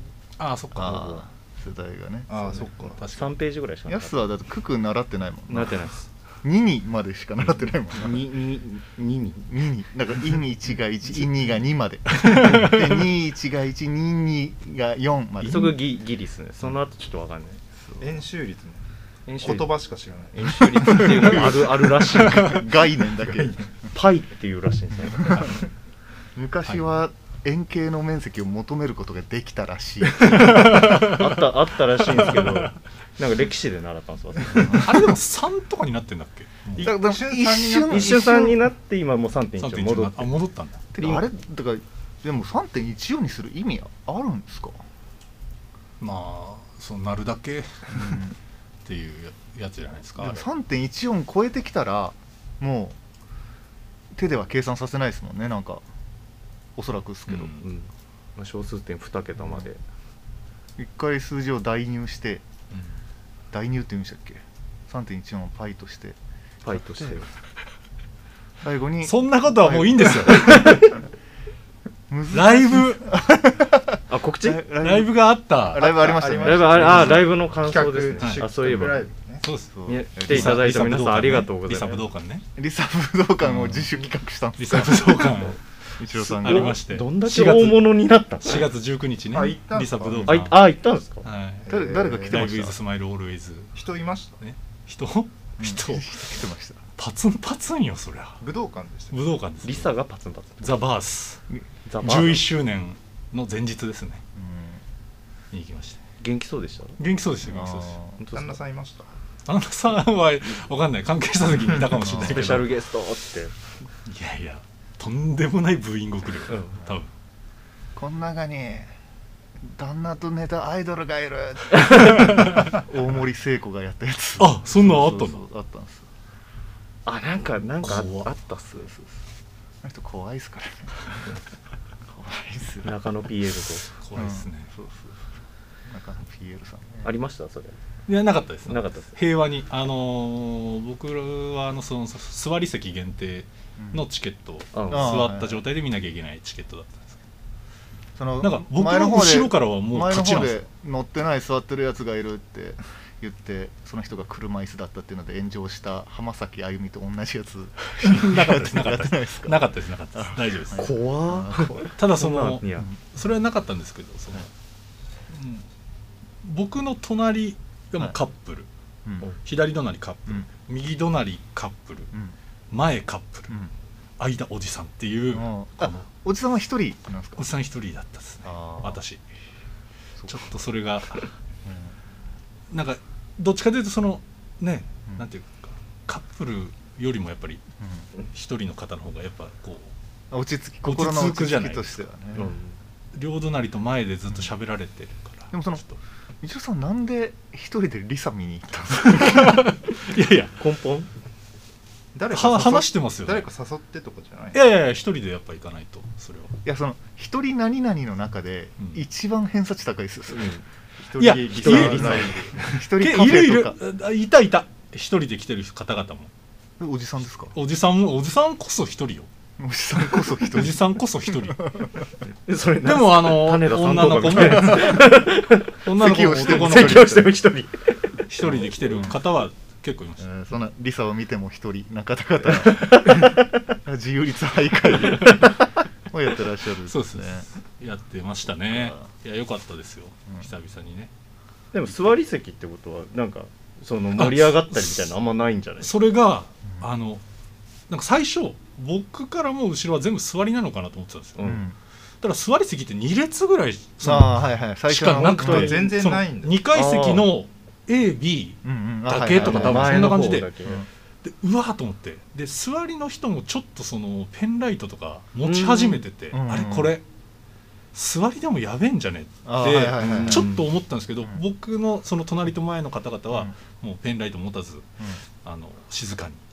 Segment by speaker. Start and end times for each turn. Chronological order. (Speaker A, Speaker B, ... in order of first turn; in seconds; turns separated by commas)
Speaker A: 0.4-1.1, Speaker B: 0.7-2.6, Speaker C: 0.7-1.2, Speaker D: 2.3-3.0, Speaker A: 2.9-3.4, Speaker C: 3.1-4.3, Speaker B: 3.9-5.9, Speaker C: 5.5-6.0, Speaker B: 6.4-8.3, Speaker C: 7.9-9.5, Speaker B: 9.5-15.8, Speaker A: 12.2-13.1, Speaker C: 15.4-17.6, Speaker A: 15.4-15.7, Speaker B: 17.8-18.1, Speaker D: 18.0-18.9, Speaker C: 19.3-19.7, Speaker D: 19.4-21.8, Speaker C: 20.3-22.7, Speaker B: 21.1-21.4, Speaker B: 22.1-23.7, Speaker D: 23.3-23.6, Speaker C: 23.9-25.5, Speaker B: 26.4-30.8, Speaker A: 30.2-31.4, Speaker C: 30.7-35.0, Speaker A: 32.1-32.7, Speaker A: 34.5-37.0, Speaker B: 34.5-34.9, Speaker B: 36.8-38.6, Speaker D: 36.8-38.5, Speaker C: 37.8-40.4, Speaker A: 39.6-40.9, Speaker B: 40.9-44.8, Speaker C: 41.0-41.2, Speaker A: 46.0-48.3, Speaker B: 47.9-48.3, Speaker A: 48.8-50.5, Speaker B: 50.2-53.0, Speaker B: 54.1-55.8, Speaker B: 56.8-57.5, Speaker A: 57.3-57.6, Speaker C: 57.5-59.8, Speaker B: 60.8-62.4, Speaker B: 63.5-67.2, Speaker C: 66.6-67.3, Speaker B: 68.6-70.7, Speaker A: 69.0-70.9, Speaker C: 70.5-70.8, Speaker B: 72.1-77.3, Speaker A: 72.3-73.1, Speaker C: 74.1-74.7, Speaker A: 74.7-76.0, Speaker D: 75.7-79.5, Speaker C: 76.4-79.1, Speaker A: 78.2-78.5, Speaker A: 79.4-82.4, Speaker B: 79.7-80.6, Speaker C: 79.8-82.0, Speaker B: 82.5-85.4, Speaker A: 83.4-83.9, Speaker A: 84.5-93.7, Speaker B: 86.0-86.8, Speaker C: 86.2-88.7, Speaker D: 89.3-90.5, Speaker C: 90.2-91.3, Speaker D: 91.6-92.6, Speaker B: 91.7-92.7, Speaker D: 93.7-94.4, Speaker A: 94.4-96.3, Speaker B: 95.6-96.8, Speaker A: 97.0-98.4, Speaker D: 98.4-99.2, Speaker A: 99.1-99.9, Speaker C: 99.6-100.9, Speaker A: 100.6-101.4, Speaker C: 101.8-102.4, Speaker A: 102.0-104.2, Speaker B: 104.3-104.8, Speaker A: 105.5-106.0, Speaker C: 106.2-107.0, Speaker A: 107.0-108.0, Speaker B: 107.4-108.2, Speaker C: 108.2-108.6, Speaker D: 108.3-109.1, Speaker A: 109.5-112.7, Speaker B: 111.8-112.5, Speaker C: 112.1-113.5, Speaker A: 114.0-117.1, Speaker C: 116.5-116.8, Speaker B: 118.0-118.9, Speaker B: 119.6-126.1, Speaker A: 122.2-122.8, Speaker A: 124.4-125.5, Speaker C: 127.0-128.9, Speaker A: 127.8-128.3, Speaker B: 128.8-129.1, Speaker B: 129.8-131.2, Speaker B: 132.1-132.9, Speaker C: 132.8-133.9, Speaker A: 133.9-134.7, Speaker B: 134.1-135.2, Speaker B: 135.8-137.1, Speaker C: 137.0-137.8, Speaker A: 138.1-147.2, Speaker C: 138.7-139.1, Speaker B: 143.8-144.0, Speaker C: 144.7-145.3, Speaker B: 144.9-145.6, Speaker B: 148.2-161.9, Speaker A: 148.4-150.6, Speaker A: 158.0-160.9, Speaker C: 160.7-162.9, Speaker A: 161.8-164.5, Speaker A: 165.3-165.6, Speaker A: 166.4-168.7, Speaker A: 169.4-172.1, Speaker A: 172.7-173.5, Speaker A: 174.2-176.1, Speaker B: 175.3-177.4, Speaker A: 177.4-179.2, Speaker B: 178.4-179.0, Speaker B: 180.2-180.4, Speaker A: 180.2-181.3, Speaker B: 181.6-181.9, Speaker A: 182.7-187.6, Speaker A: 188.3-189.9, Speaker B: 190.3-192.5, Speaker A: 190.8-192.1, Speaker C: 192.3-192.8, Speaker A: 193.1-196.0, Speaker B: 195.5-195.8, Speaker B: 196.4-199.7, Speaker A: 199.0-200.5, Speaker C: 200.6-201.1, Speaker D: 202.1-204.6, Speaker A: 202.3-203.5, Speaker A: 204.5-206.5, Speaker B: 206.6-210.6, Speaker C: 210.3-210.6, Speaker D: 211.0-212.8, Speaker A: 211.2-216.3, Speaker C: 211.5-212.5, Speaker B: 211.6-213.8, Speaker B: 216.8-217.5, Speaker A: 217.5-219.3, Speaker B: 219.6-221.9, Speaker A: 220.1-221.7, Speaker C: 222.4-228.2, Speaker A: 222.8-225.2, Speaker B: 224.4-225.2, Speaker A: 225.8-227.3, Speaker B: 225.9-227.3, Speaker A: 228.3-230.3, Speaker B: 228.4-229.1, Speaker B: 230.2-237.4, Speaker C: 232.7-233.5, Speaker A: 235.0-235.4, Speaker A: 236.8-241.1, Speaker B: 238.7-239.0, Speaker C: 241.7-245.9, Speaker A: 244.1-245.1, Speaker A: 245.8-247.2, Speaker A: 247.9-251.6, Speaker C: 251.4-251.6, Speaker B: 251.4-251.8, Speaker A: 252.2-260.5, Speaker B: 254.0-255.8, Speaker C: 255.2-255.9, Speaker D: 255.4-256.6, Speaker C: 256.7-257.3, Speaker B: 258.6-260.9, Speaker C: 259.4-260.8, Speaker A: 261.2-267.0, Speaker C: 265.4-266.0, Speaker B: 266.3-267.0, Speaker A: 267.9-274.9, Speaker B: 269.4-270.5, Speaker C: 270.2-270.7, Speaker A: 275.4-276.4